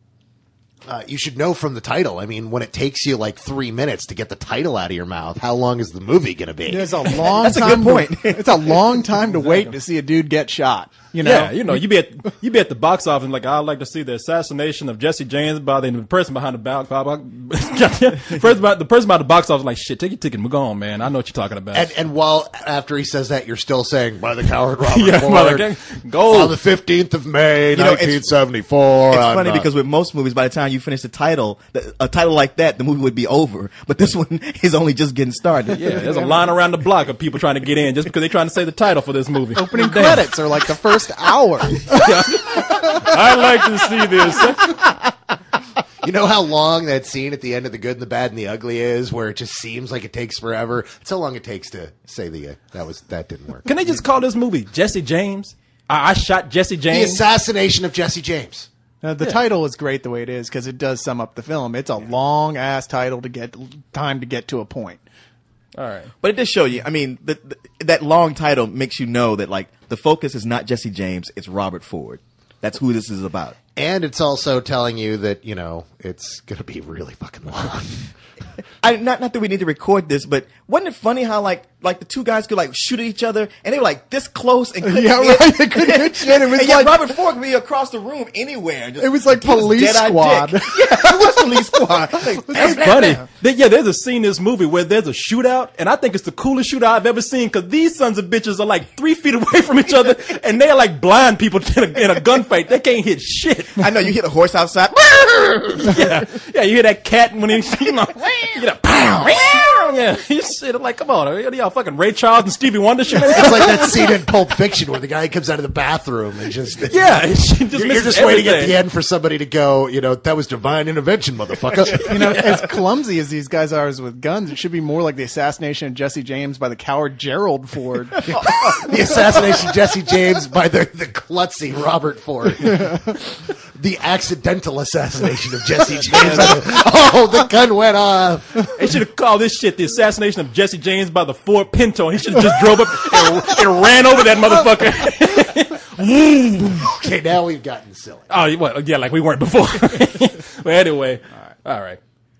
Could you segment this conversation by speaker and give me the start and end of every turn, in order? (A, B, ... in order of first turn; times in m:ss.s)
0:00.9-0:07.1 A
0:06.7-0:11.8 B
0:07.3-0:08.8 C
0:09.2-0:09.7 D
0:11.2-0:21.9 D
0:21.7-0:25.7 A
0:24.9-0:26.6 D
0:26.2-0:29.7 A
0:27.7-0:28.3 C
0:29.1-0:36.0 C
0:35.8-0:40.3 D
0:35.9-0:36.5 B
0:39.6-0:42.0 B
0:41.8-0:44.8 D
0:42.6-0:43.0 B
0:46.0-0:53.7 A
0:53.6-0:57.2 D
0:56.9-0:58.7 A
0:59.0-1:05.0 B
1:05.8-1:06.1 D
1:06.2-1:13.6 C
1:13.8-1:18.1 A
1:18.8-1:33.2 C
1:24.8-1:27.0 B
1:29.0-1:33.1 B
1:32.5-1:43.8 D
1:43.8-1:45.8 C
1:45.8-1:54.0 D
1:53.2-2:02.4 A
1:56.9-1:58.8 D
2:02.1-2:08.2 B
2:02.2-2:02.5 D
2:08.3-2:18.7 A
2:16.1-2:16.6 D
2:18.8-2:26.9 D
2:26.8-2:28.3 A
2:28.3-2:32.0 D